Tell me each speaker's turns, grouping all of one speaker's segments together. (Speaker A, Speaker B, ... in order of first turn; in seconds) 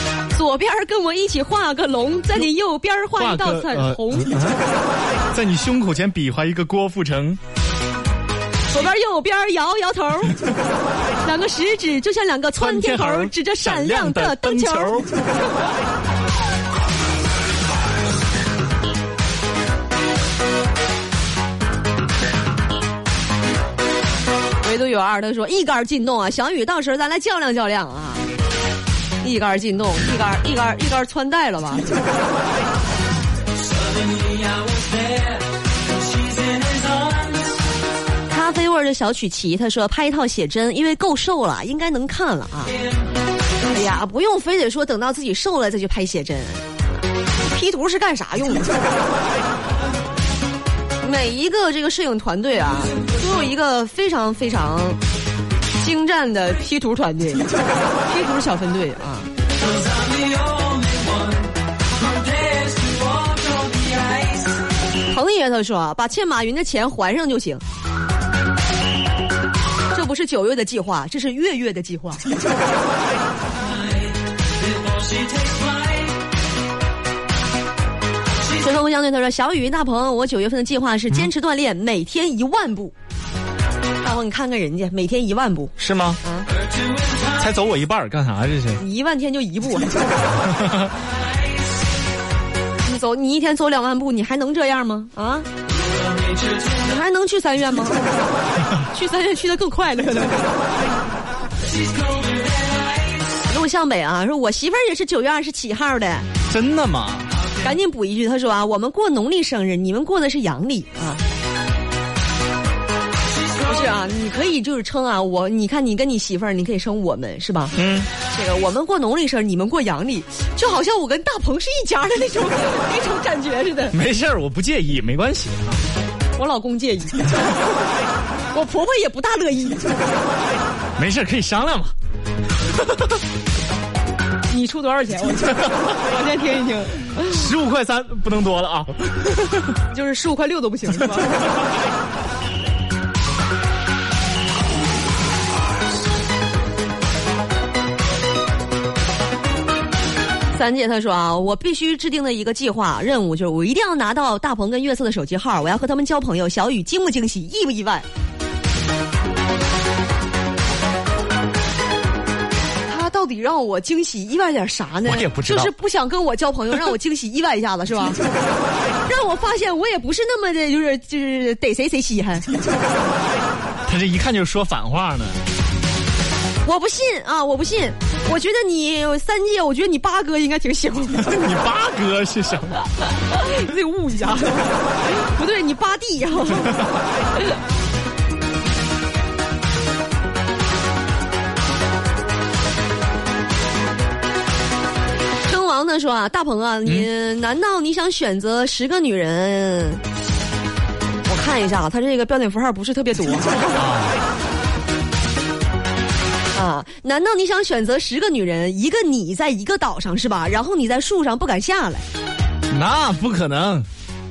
Speaker A: 0.3-4.3, 8.7-10.4, 11.2-14.9, 24.6-28.2, 29.2-32.0, 38.3-42.7, 43.6-46.6, 47.4-48.7, 51.0-55.0, 55.8-57.4, 58.1-59.3, 65.1-67.6, 69.9-72.2, 78.6-82.9, 84.0-86.5, 88.8-90.1, 92.8-95.5, 96.8-98.0, 98.9-100.5, 103.5-106.3, 107.6-111.2, 113.6-117.7, 118.3-124.0, 126.4-127.4, 128.5-129.8, 134.5-137.4, 139.9-141.5, 150.5-158.1, 162.9-168.2, 169.1-172.5, 176.6-181.4, 183.3-186.8, 195.5-200.0, 201.2-203.8, 206.5-212.0
Speaker B: 3.1-4.6, 5.3-7.4, 12.5-15.1, 85.8-86.2, 87.3-88.8, 90.3-90.9, 106.5-107.3, 117.7-118.1, 123.9-125.8, 131.0-131.9, 137.2-139.7, 165.0-165.7, 173.8-175.4, 181.2-182.8, 203.7-204.2, 212.7-213.9